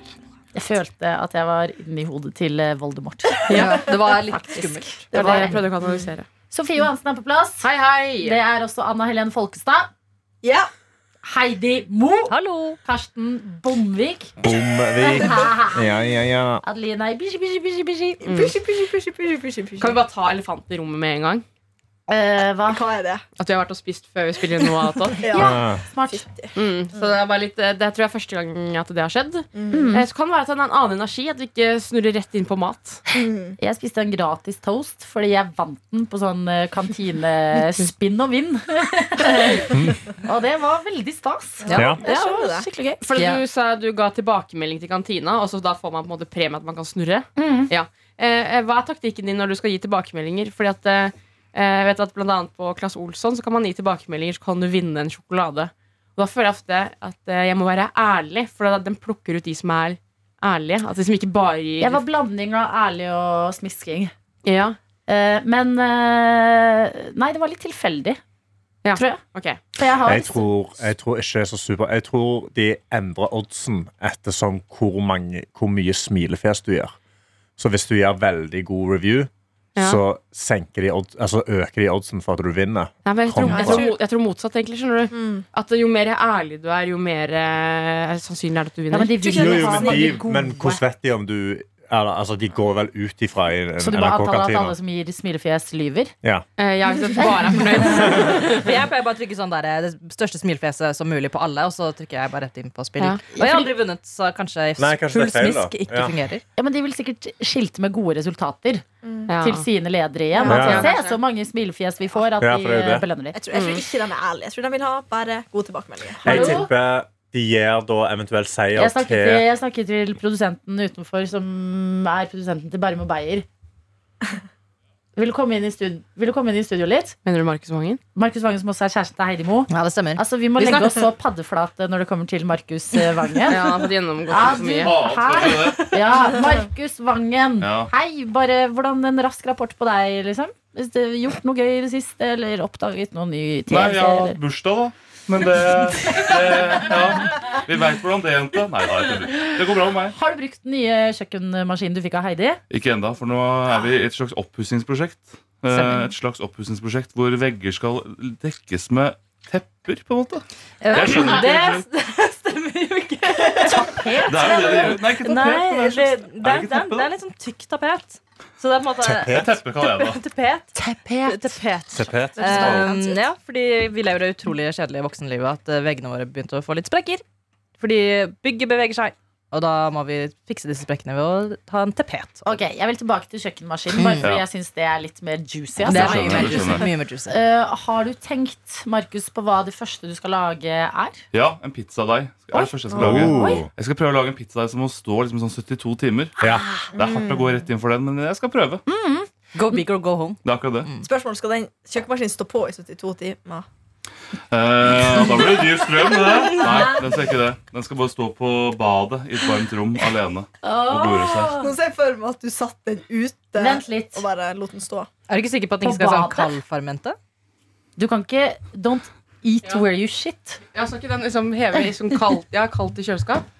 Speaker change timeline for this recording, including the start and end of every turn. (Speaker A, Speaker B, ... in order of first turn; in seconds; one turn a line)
Speaker A: 0.5-5.6
Speaker B: 3.5-3.8
Speaker C: 3.5-5.7
Speaker B: 5.1-6.3
Speaker D: 5.2-6.1
Speaker A: 6.5-7.7
Speaker B: 7.6-8.4
Speaker A: 8.2-9.9
Speaker D: 10.4-10.7
Speaker A: 11.2-14.3
Speaker C: 12.3-12.8
Speaker E: 14.4-16.6
Speaker A: 15.0-16.1
Speaker D: 15.0-15.5
Speaker A: 16.6-18.2
Speaker D: 18.2-20.0
Speaker B: 18.2-18.5
Speaker B: 19.8-21.4
Speaker A: 22.1-22.8
Speaker D: 22.7-23.2
Speaker B: 23.4-25.4
Speaker D: 25.2-27.1
Speaker A: 25.3-26.2
Speaker E: 25.3-25.8
Speaker B: 26.5-33.0
Speaker D: 29.5-29.8
Speaker A: 29.7-30.1
Speaker D: 33.1-33.6
Speaker A: 33.6-43.0
Speaker B: 37.5-37.9
Speaker E: 39.7-40.0
Speaker D: 41.6-42.7
Speaker E: 41.7-42.0
Speaker B: 43.0-62.0
Speaker A: 47.4-47.7
Speaker A: 61.8-64.1
Speaker B: 64.4-64.8
Speaker A: 65.1-68.2
Speaker B: 68.8-69.6
Speaker A: 68.9-69.2
Speaker A: 69.7-70.8
Speaker E: 69.8-76.9
Speaker E: 77.6-83.9
Speaker B: 79.8-80.0
Speaker B: 83.0-89.7
Speaker A: 83.5-83.8
Speaker D: 83.6-84.0
Speaker D: 85.1-85.4
Speaker A: 88.9-90.8
Speaker D: 89.2-90.1
Speaker E: 89.3-94.8
Speaker A: 93.8-96.1
Speaker B: 96.6-98.7
Speaker C: 98.0-106.4
Speaker B: 103.0-103.2
Speaker A: 103.3-103.7
Speaker E: 104.8-106.1
Speaker A: 106.6-108.8
Speaker D: 109.0-109.3
Speaker B: 109.3-109.7
Speaker A: 109.4-113.4
Speaker B: 110.3-111.2
Speaker E: 110.4-110.9
Speaker E: 112.4-113.1
Speaker D: 113.3-116.6
Speaker B: 113.5-113.8
Speaker E: 116.2-119.5
Speaker A: 116.2-116.7
Speaker A: 118.7-123.5
Speaker A: 125.2-127.2
Speaker B: 127.2-128.0
Speaker A: 128.1-133.7
Speaker C: 129.7-131.1
Speaker B: 133.5-135.0
Speaker A: 134.3-144.4
Speaker F: 134.3-136.3
Speaker F: 137.6-137.9
Speaker F: 143.7-150.1
Speaker A: 150.1-152.6
Speaker F: 152.7-161.9
Speaker C: 155.7-156.1
Speaker C: 160.8-177.2
Speaker A: 163.6-165.0
Speaker F: 164.2-167.1
Speaker E: 169.0-169.6
Speaker F: 169.2-170.2
Speaker A: 170.8-171.6
Speaker E: 171.9-172.9
Speaker D: 172.4-173.2
Speaker C: 177.8-182.7
Speaker A: 182.4-191.2
Speaker C: 183.9-184.3
Speaker F: 184.2-184.4
Speaker C: 185.8-187.4
Speaker F: 185.9-186.9
Speaker F: 191.3-196.4
Speaker A: 192.5-193.6
Speaker D: 192.9-193.2
Speaker E: 192.9-193.7
Speaker E: 196.4-196.7
Speaker F: 196.9-198.8
Speaker D: 196.9-197.4
Speaker A: 198.9-199.8
Speaker C: 199.5-201.0
Speaker F: 200.4-200.9
Speaker D: 201.0-203.6
Speaker F: 204.5-211.6
Speaker A: 210.6-211.7
Speaker D: 211.6-215.1
Speaker A: 213.6-214.2
Speaker C: 215.3-217.2
Speaker A: 215.8-216.6
Speaker A: 218.0-220.6
Speaker B: 220.7-223.4